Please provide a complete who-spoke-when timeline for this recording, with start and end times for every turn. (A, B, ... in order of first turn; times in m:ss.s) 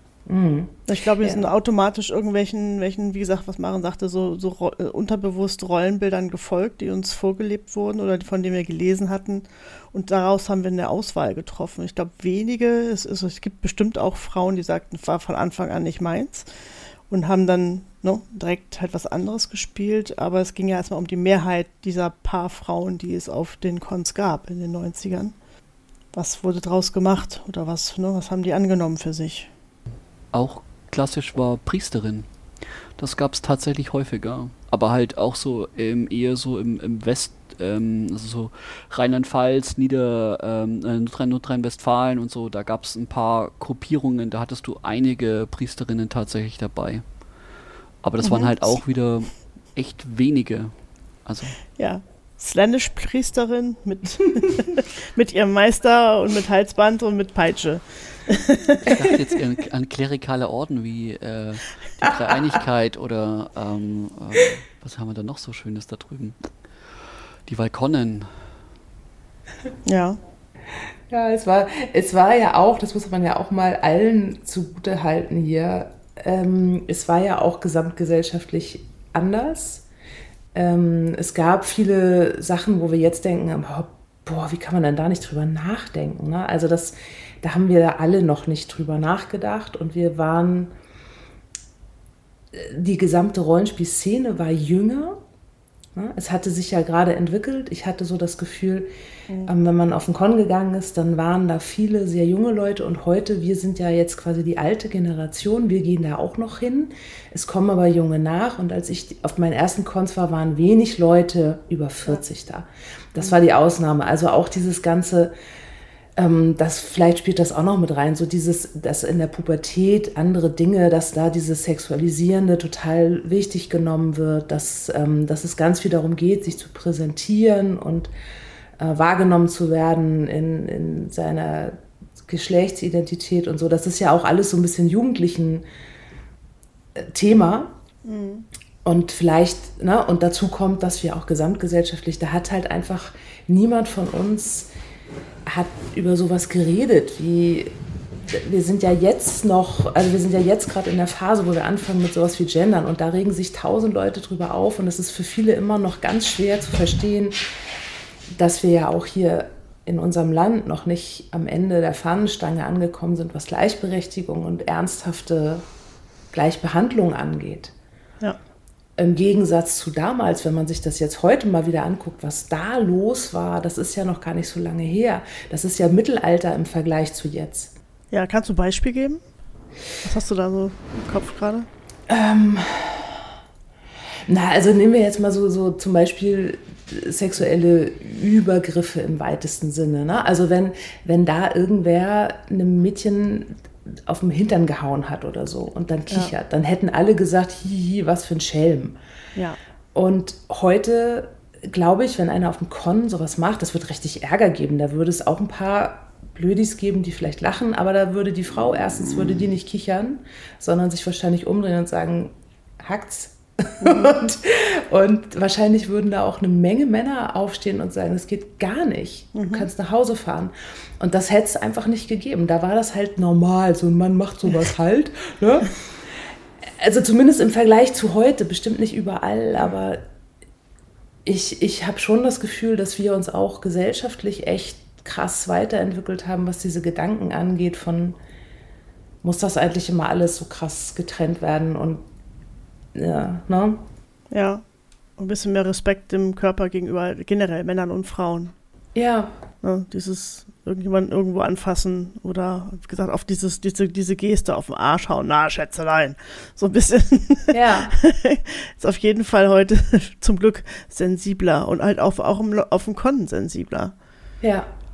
0:00.3-0:01.5 A
0:00.9-0:16.5 B
0:17.1-0:25.4 B
0:26.1-0:29.5 B
0:30.3-0:32.3 C
0:33.0-0:47.0 C
0:48.0-0:50.7 C
0:48.2-0:48.8 B
0:51.3-0:51.6 C
0:51.8-0:59.2 B
0:58.9-1:06.5 C
1:07.5-1:08.3 C
1:09.8-1:10.2 B
1:11.1-1:19.8 A
1:20.5-1:30.7 A
1:32.5-1:35.2 A
1:36.0-1:38.9 A
1:39.5-1:55.3 A
1:56.2-2:08.1 A
2:08.8-2:11.8 A
2:12.3-2:15.6 A
2:17.0-2:17.8 A
2:18.0-2:18.5 B
2:18.8-2:24.7 A
2:25.5-2:27.7 A
2:28.3-2:37.4 A
2:38.3-2:45.6 A
2:46.3-2:47.7 A
2:49.0-2:57.7 A
2:58.1-2:59.2 B
3:00.0-3:01.7 B
3:02.1-3:03.2 A
3:04.3-3:13.6 A
3:14.1-3:19.0 A
3:20.0-3:45.7 A
3:33.8-3:34.2 B
3:39.4-3:39.7 B
3:46.8-3:50.0 A
3:51.3-3:58.2 A
3:59.2-4:02.0 A
4:03.0-4:03.8 A
4:04.3-4:04.6 B
4:05.2-4:08.6 B
4:09.0-4:09.3 A
4:09.6-4:24.0 B
4:17.5-4:18.0 A
4:24.4-4:24.7 A